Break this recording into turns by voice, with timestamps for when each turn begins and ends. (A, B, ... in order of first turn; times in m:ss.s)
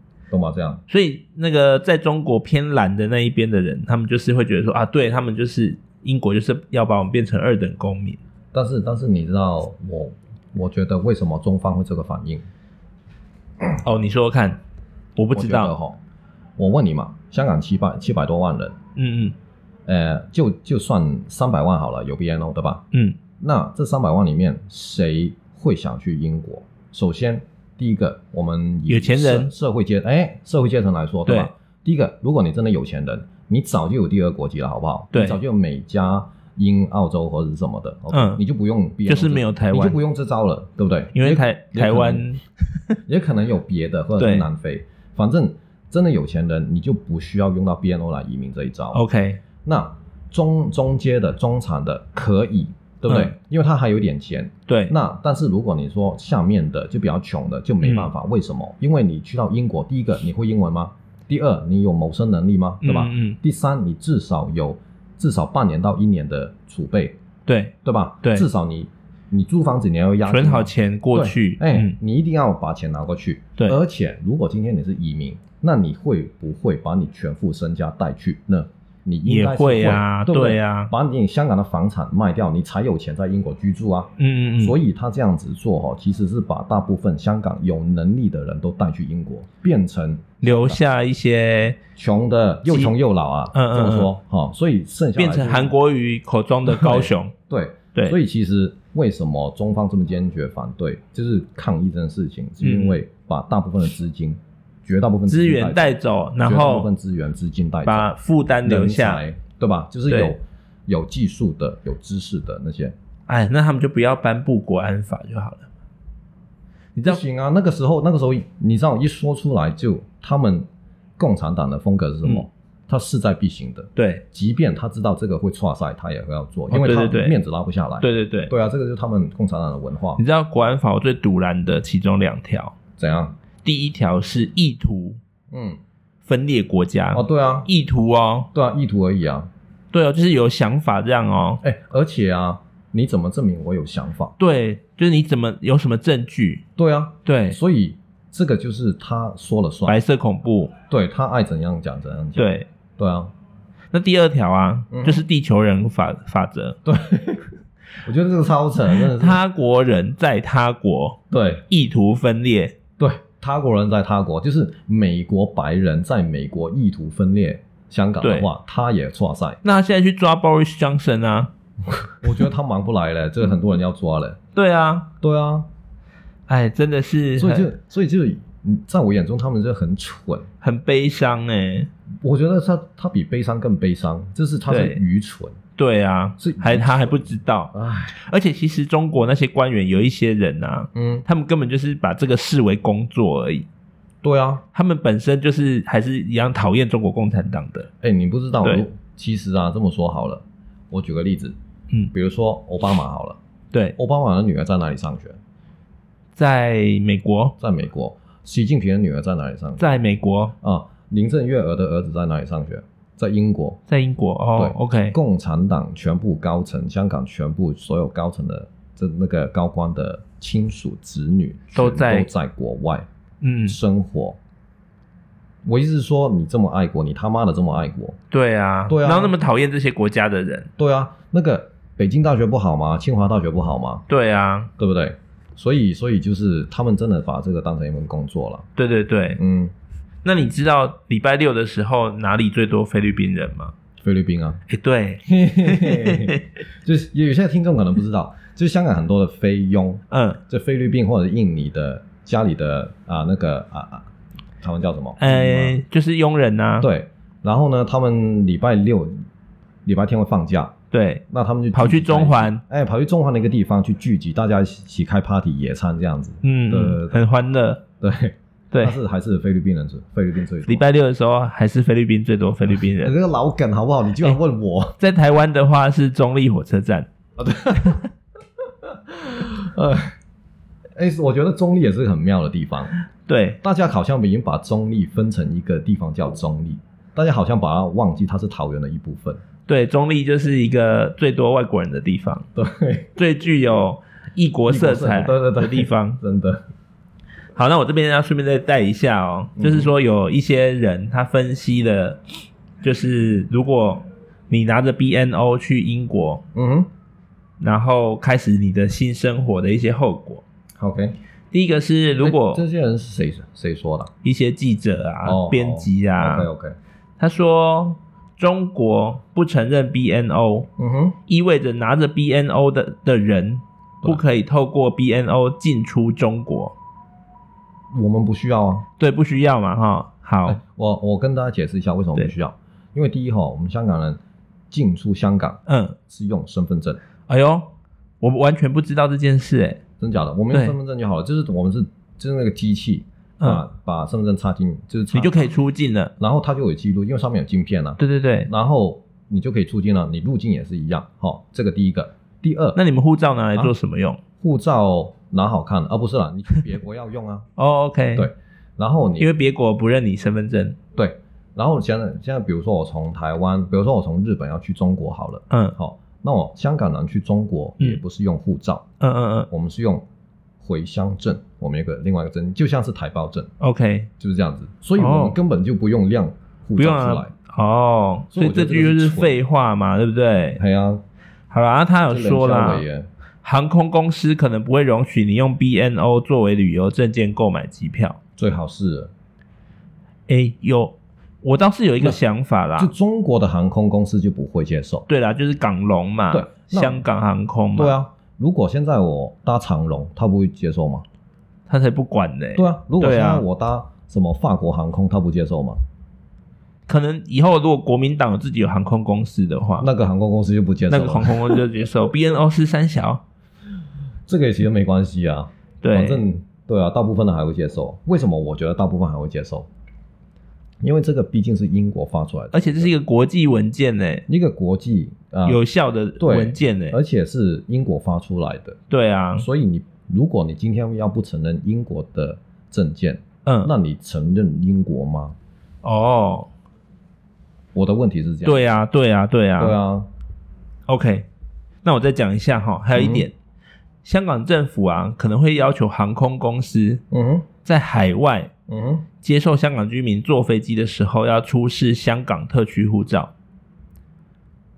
0:00.3-0:00.8 A
0:00.9-0:08.2 B
0:08.5-0:12.5 A
0:13.8-0:14.6 B
0:15.2-0:15.7 B
0:15.3-0:16.0 A
0:16.6-0:18.8 A
0:19.0-0:19.4 B
0:19.9-0:22.8 A
0:22.9-0:23.2 B
0:23.4-0:42.2 A
0:28.9-0:29.5 B
0:35.1-0:35.4 B
0:38.1-0:38.4 B
0:39.1-0:40.0 B
0:41.2-0:43.0 B
0:43.1-0:49.0 A
0:44.2-0:44.5 B
0:48.9-0:49.4 B
0:49.6-1:07.2 A
0:53.1-0:53.4 B
0:54.7-0:54.9 B
0:57.8-0:58.1 B
1:02.8-1:03.4 B
1:07.5-1:08.5 B
1:07.8-1:30.8 A
1:10.3-1:12.0 B
1:19.3-1:20.9 B
1:24.2-1:24.8 B
1:30.4-1:31.8 B
1:32.0-1:35.7 A
1:32.7-1:32.9 B
1:33.5-1:34.1 B
1:35.2-1:37.3 B
1:36.7-1:48.1 A
1:42.6-1:43.0 B
1:45.3-1:46.9 B
1:47.8-1:49.2 B
1:48.6-1:53.0 A
1:50.1-1:50.3 B
1:53.3-1:55.7 B
1:57.0-1:57.2 B
1:57.0-2:00.7 A
2:01.2-2:10.2 A
2:04.0-2:04.2 B
2:06.7-2:07.4 B
2:08.0-2:08.5 B
2:10.2-2:12.8 B
2:13.0-2:13.4 A
2:13.6-2:15.2 B
2:15.5-2:15.8 A
2:16.2-2:18.5 B
2:17.1-2:17.7 A
2:18.5-2:19.5 A
2:19.9-2:21.6 B
2:21.6-2:24.4 A
2:24.4-2:26.6 B
2:26.8-2:30.0 A
2:27.2-2:27.6 B
2:29.9-2:30.7 B
2:30.9-2:33.3 A
2:32.4-2:32.7 B
2:33.9-2:36.8 B
2:34.9-2:35.2 A
2:36.8-2:39.4 A
2:39.0-2:42.8 B
2:41.3-2:41.6 A
2:43.0-2:49.6 A
2:48.2-2:48.5 B
2:49.6-2:51.5 B
2:52.0-2:54.4 A
2:54.6-2:55.1 B
2:55.2-2:55.7 A
2:56.5-2:57.7 B
2:57.4-3:00.5 A
3:00.6-3:01.9 B
3:02.2-3:05.6 A
3:04.7-3:05.0 B
3:05.8-3:13.7 B
3:06.4-3:08.2 A
3:11.0-3:11.2 A
3:14.2-3:14.6 A
3:14.7-3:17.9 B
3:18.0-3:21.6 A
3:22.1-3:23.4 A
3:24.0-3:25.4 A
3:26.4-3:27.6 B
3:27.6-3:29.9 A
3:29.8-3:30.6 B
3:30.6-3:33.8 A
3:33.9-3:35.2 B
3:34.6-3:43.1 A
3:41.7-3:42.3 B
3:43.4-3:43.8 B
3:43.7-3:44.4 A
3:45.6-3:48.2 A
3:48.3-3:50.7 B
3:48.9-3:49.3 A
3:50.8-3:54.0 A
3:54.1-3:54.7 B
3:54.8-3:58.7 A
3:58.8-3:59.4 B
3:59.4-3:59.7 A
4:00.2-4:03.7 B
4:04.0-4:04.6 A
4:04.7-4:06.4 B
4:05.3-4:14.1 A
4:10.1-4:10.4 B
4:14.6-4:15.8 A
4:15.2-4:16.9 B
4:16.8-4:19.2 A
4:19.8-4:20.7 A
4:20.9-4:22.6 B
4:21.3-4:27.2 A
4:26.4-4:27.8 B
4:28.0-4:30.8 A
4:28.7-4:29.0 B
4:30.7-4:33.1 B
4:33.0-4:35.0 A
4:35.0-4:37.1 B
4:37.4-4:38.1 A
4:38.8-4:40.2 A
4:41.0-4:42.9 A
4:43.3-4:43.6 B
4:43.6-4:49.4 A
4:49.7-4:52.5 B
4:52.6-4:53.2 A
4:53.2-4:56.2 B
4:54.7-4:56.6 A
4:57.6-5:02.2 B
4:59.6-4:59.9 A
5:02.8-5:06.4 B
5:06.5-5:06.9 A
5:07.6-5:10.4 B
5:10.8-5:11.2 A
5:11.5-5:12.6 B
5:12.2-5:14.1 A
5:14.2-5:16.5 B
5:15.2-5:16.8 A
5:17.2-5:20.7 B
5:20.8-5:21.2 A
5:21.3-5:26.8 B
5:27.9-5:28.9 A
5:29.0-5:30.6 B
5:30.5-5:34.2 A
5:34.7-5:37.0 A
5:35.7-5:36.0 B
5:37.3-5:39.8 B
5:40.0-5:45.5 A
5:45.1-5:46.1 B
5:46.2-5:52.8 A
5:48.0-5:48.5 B
5:52.8-5:54.2 B
5:54.4-5:57.5 A
5:57.6-5:58.3 B
5:58.2-5:59.3 A
5:59.2-6:00.8 B
6:01.0-6:08.9 A
6:05.5-6:05.8 B
6:09.0-6:09.5 B
6:09.5-6:10.0 A
6:10.6-6:13.5 A
6:13.6-6:14.1 B
6:14.2-6:17.3 A
6:15.0-6:15.4 B
6:16.8-6:20.6 B
6:18.3-6:19.4 A
6:20.6-6:21.0 A
6:21.5-6:22.8 B
6:22.1-6:23.1 A
6:23.4-6:28.2 B
6:28.4-6:29.1 A
6:30.3-6:32.9 B
6:32.8-6:35.1 A
6:35.1-6:38.0 B
6:36.3-6:37.0 A
6:37.8-6:41.0 A
6:41.7-6:43.4 B
6:42.6-6:45.8 A
6:46.9-6:49.9 B
6:49.8-6:51.6 A
6:50.9-6:53.2 B
6:54.3-6:59.7 A
6:55.8-6:56.2 B
7:00.8-7:02.9 A
7:02.5-7:04.2 B
7:04.3-7:05.6 A
7:05.4-7:07.0 B
7:06.2-7:08.8 A
7:08.9-7:09.5 B
7:09.4-7:15.4 A
7:13.5-7:13.7 B
7:15.8-7:16.5 B
7:17.7-7:18.7 A
7:18.4-7:19.8 B
7:19.6-7:20.1 A
7:20.9-7:21.3 B
7:21.8-7:23.3 B
7:22.9-7:23.3 A
7:24.0-7:27.0 B
7:27.1-7:27.5 A
7:27.6-7:28.5 B
7:28.7-7:29.1 A
7:29.2-7:33.3 B